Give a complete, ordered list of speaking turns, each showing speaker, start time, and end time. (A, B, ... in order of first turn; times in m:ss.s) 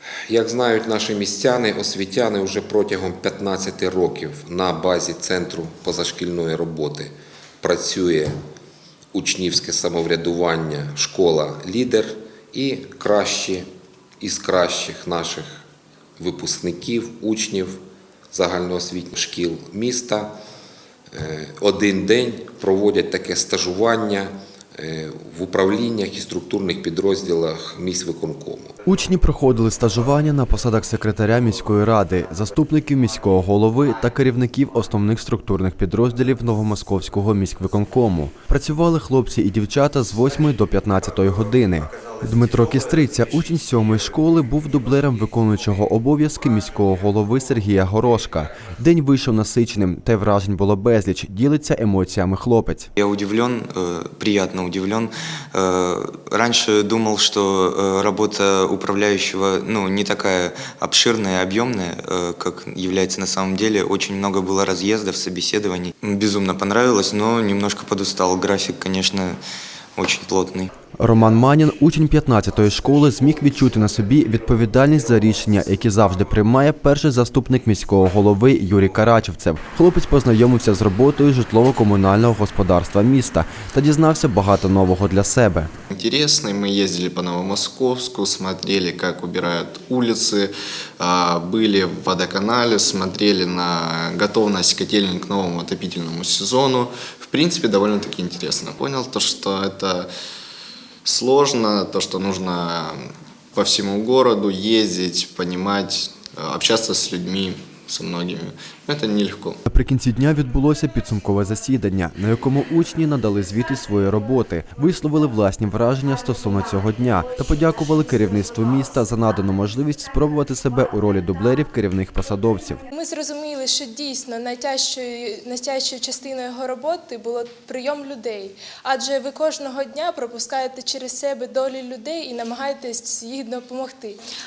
0:00.3-0:08.3 A
0:09.1-0:13.7 A
0:14.2-0:15.6 A
0:16.2-0:17.8 A
0:18.3-0:20.3 A
0:21.1-0:28.7 A
0:28.8-0:52.9 B
0:53.0-1:09.4 C
1:10.0-1:10.7 C
1:11.0-1:25.7 B
1:25.9-1:40.1 D
1:41.0-1:49.6 D
1:49.7-2:02.8 B
2:02.9-2:14.2 E